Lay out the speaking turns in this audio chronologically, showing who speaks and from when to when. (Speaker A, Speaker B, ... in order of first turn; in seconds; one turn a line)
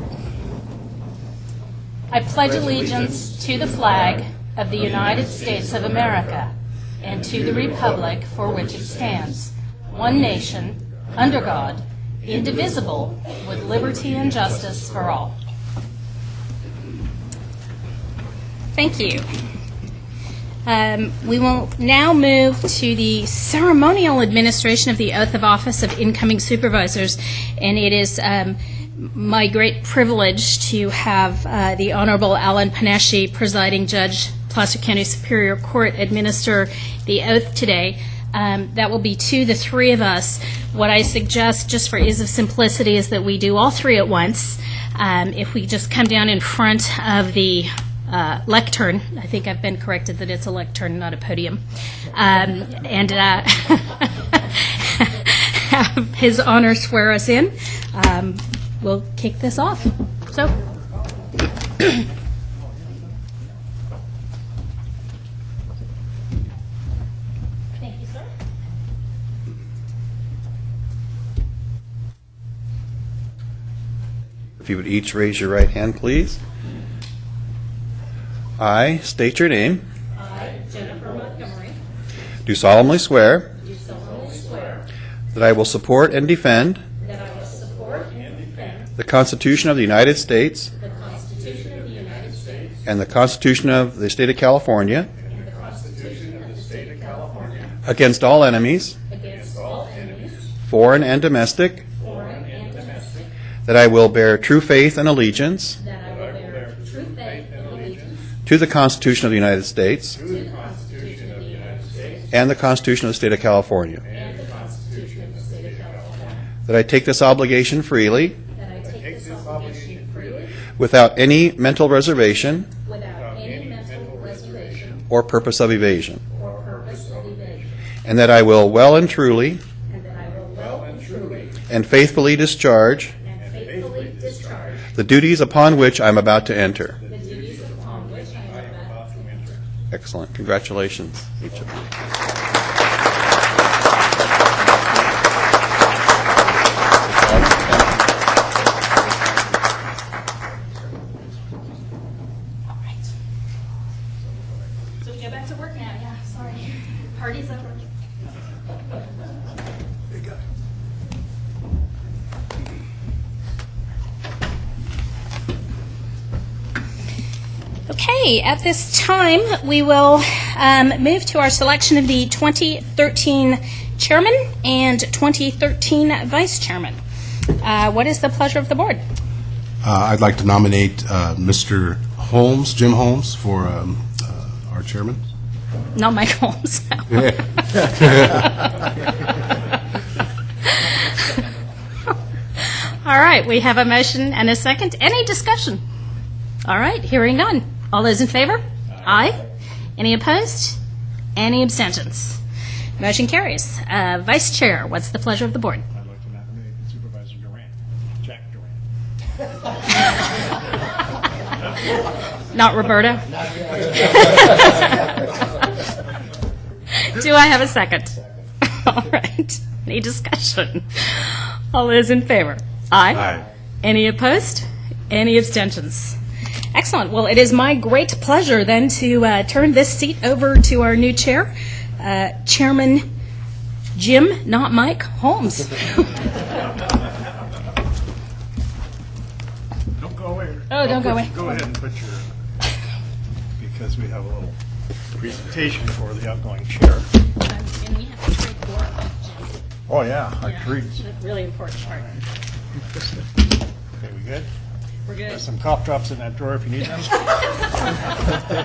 Speaker A: 2.1-6.5
Speaker A: 7.0-15.3
Speaker A: 18.7-19.2
Speaker A: 20.6-60.5
Speaker A: 67.8-68.3
Speaker B: 74.6-76.4
Speaker B: 78.6-79.8
Speaker A: 80.2-81.8
Speaker B: 82.5-83.5
Speaker A: 83.6-84.8
Speaker B: 85.3-86.8
Speaker A: 87.0-88.9
Speaker B: 89.0-90.7
Speaker A: 90.8-92.7
Speaker B: 92.8-95.1
Speaker A: 95.3-97.6
Speaker C: 95.8-97.7
Speaker B: 97.8-99.0
Speaker A: 99.1-100.4
Speaker C: 99.5-100.0
Speaker B: 100.7-101.9
Speaker A: 102.0-103.2
Speaker C: 102.0-103.2
Speaker B: 103.7-105.8
Speaker A: 105.8-108.1
Speaker C: 106.1-108.1
Speaker B: 108.5-110.2
Speaker C: 110.2-112.3
Speaker A: 110.2-111.9
Speaker B: 112.3-114.0
Speaker C: 114.1-116.3
Speaker A: 114.1-116.4
Speaker B: 116.7-118.4
Speaker A: 118.5-120.5
Speaker C: 118.9-120.3
Speaker B: 120.8-122.7
Speaker A: 122.7-125.0
Speaker C: 123.2-124.9
Speaker B: 125.1-126.2
Speaker C: 126.3-127.7
Speaker A: 126.3-127.6
Speaker B: 128.0-129.6
Speaker A: 129.9-131.5
Speaker C: 130.7-131.5
Speaker B: 131.7-133.1
Speaker A: 133.2-134.8
Speaker C: 133.4-134.8
Speaker B: 134.9-137.0
Speaker C: 137.0-139.6
Speaker A: 137.1-139.4
Speaker B: 139.9-141.8
Speaker B: 147.1-148.0
Speaker B: 149.1-149.4
Speaker A: 155.0-157.8
Speaker A: 167.9-179.0
Speaker D: 179.8-185.2
Speaker A: 185.9-188.3
Speaker D: 187.9-188.5
Speaker A: 193.0-195.8
Speaker A: 196.7-199.4
Speaker A: 200.0-200.8
Speaker A: 201.3-202.4
Speaker A: 203.0-205.8
Speaker C: 205.9-208.8
Speaker A: 212.5-213.2
Speaker A: 213.8-215.1
Speaker A: 216.9-226.2
Speaker A: 226.7-233.1
Speaker A: 233.9-236.4
Speaker C: 239.9-242.3
Speaker A: 240.7-241.6
Speaker C: 243.6-244.5
Speaker C: 245.2-247.1
Speaker A: 247.4-249.6
Speaker C: 249.9-251.0
Speaker A: 250.4-252.1
Speaker C: 254.0-254.5
Speaker A: 255.1-255.4
Speaker C: 255.3-257.3